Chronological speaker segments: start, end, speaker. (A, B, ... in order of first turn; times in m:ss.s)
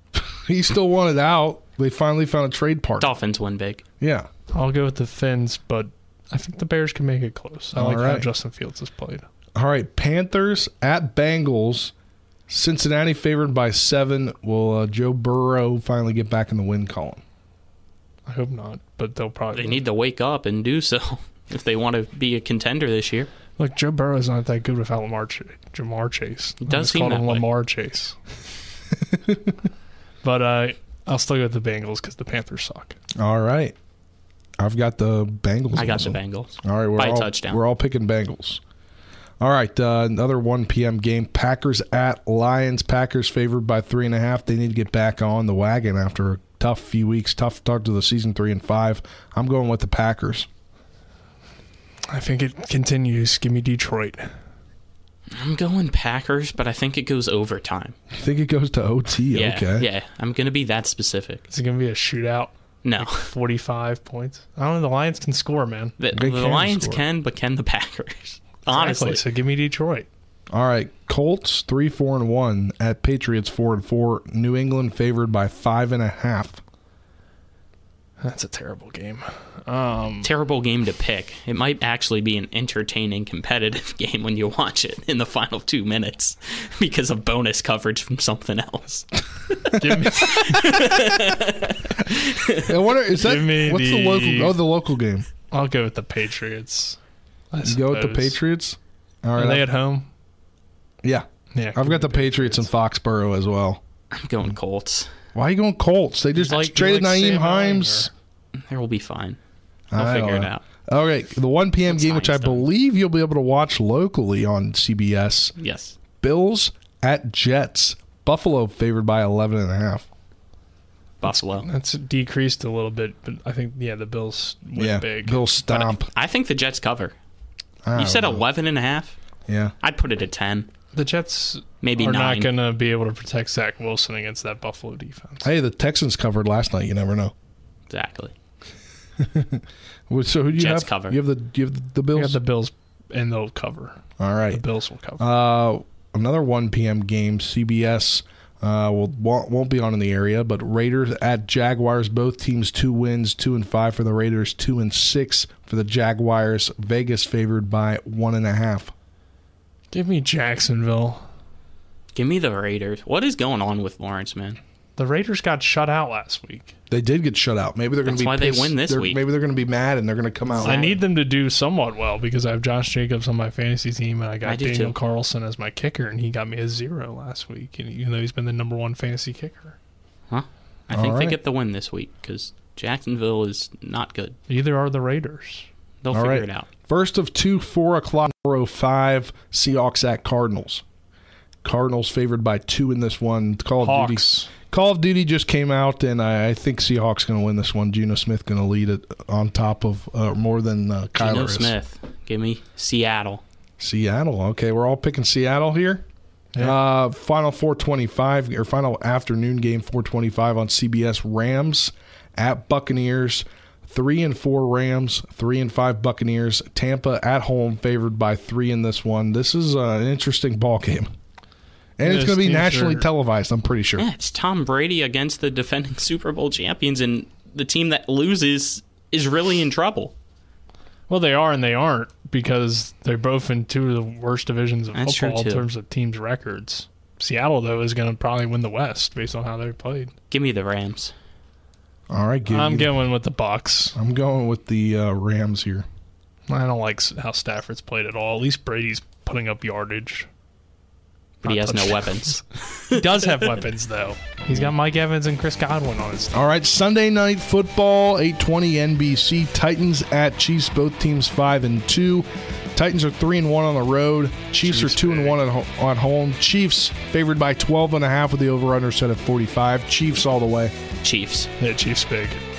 0:00.3-0:03.1 A
0:03.0-0:03.8 B
0:04.0-0:04.3 A
0:04.5-0:09.3 C
0:07.8-0:08.3 A
0:09.6-0:11.9 A
0:12.5-0:17.2 A
0:18.3-0:19.8 C
0:19.5-0:23.3 B
0:23.6-0:28.4 C
0:26.6-0:27.5 B
0:29.1-0:29.5 A
0:30.2-0:33.0 C
0:33.2-0:33.8 A
0:34.6-0:38.6 A
0:35.8-0:37.6 B
0:39.4-0:50.5 A
0:52.1-0:54.4 C
0:55.3-0:58.0 B
0:58.1-0:59.9 A
0:59.3-1:01.4 B
1:01.5-1:05.9 C
1:02.8-1:03.3 B
1:06.0-1:09.2 B
1:06.1-1:07.0 A
1:08.7-1:10.1 C
1:10.5-1:16.6 A
1:18.2-1:20.3 C
1:20.2-1:32.5 B
1:29.8-1:30.9 C
1:32.7-1:35.3 A
1:33.2-1:34.6 C
1:35.5-1:37.0 C
1:37.5-1:38.4 C
1:37.6-1:39.7 A
1:39.4-1:40.1 C
1:41.0-1:43.8 A
1:41.5-1:42.6 C
1:44.1-1:45.1 B
1:45.3-1:48.1 A
1:46.3-1:48.1 C
1:48.6-1:49.4 B
1:49.9-1:55.5 A
1:50.0-1:50.6 B
1:51.9-1:52.7 B
1:55.6-1:56.0 B
1:56.2-2:00.1 A
2:01.2-2:01.7 B
2:01.2-2:05.5 C
2:04.8-2:06.1 A
2:05.7-2:07.2 B
2:07.8-2:08.4 A
2:08.0-2:09.2 B
2:09.5-2:09.7 A
2:09.8-2:10.7 B
2:10.9-2:15.5 C
2:11.8-2:12.5 B
2:15.4-2:17.3 A
2:17.9-2:18.3 B
2:19.2-2:22.4 A
2:20.6-2:21.2 B
2:22.1-2:25.3 C
2:24.2-2:24.6 A
2:25.2-2:38.9 A
2:39.9-2:41.3 C
2:42.1-2:44.6 B
2:45.0-2:46.7 C
2:46.9-2:51.0 A
2:48.1-2:49.2 B
2:50.6-2:50.9 B
2:50.6-2:59.8 C
2:54.4-2:55.0 B
3:00.3-3:04.4 B
3:00.9-3:01.4 A
3:04.5-3:05.7 C
3:06.0-3:06.7 B
3:06.1-3:10.8 A
3:11.6-3:21.7 A
3:13.8-3:14.5 C
3:21.2-3:23.4 B
3:23.8-3:26.0 A
3:26.6-3:41.1 A
3:42.0-3:44.0 A
3:42.0-3:43.1 C
3:44.0-3:50.1 B
3:51.1-4:00.1 C
3:54.9-3:55.7 B
4:00.3-4:01.1 B
4:02.1-4:03.0 A
4:02.5-4:04.0 C
4:04.0-4:05.9 A
4:06.5-4:10.3 C
4:11.4-4:13.0 B
4:11.4-4:16.4 C
4:16.3-4:30.7 A
4:24.7-4:25.3 B
4:31.0-4:31.5 B
4:31.6-4:32.4 C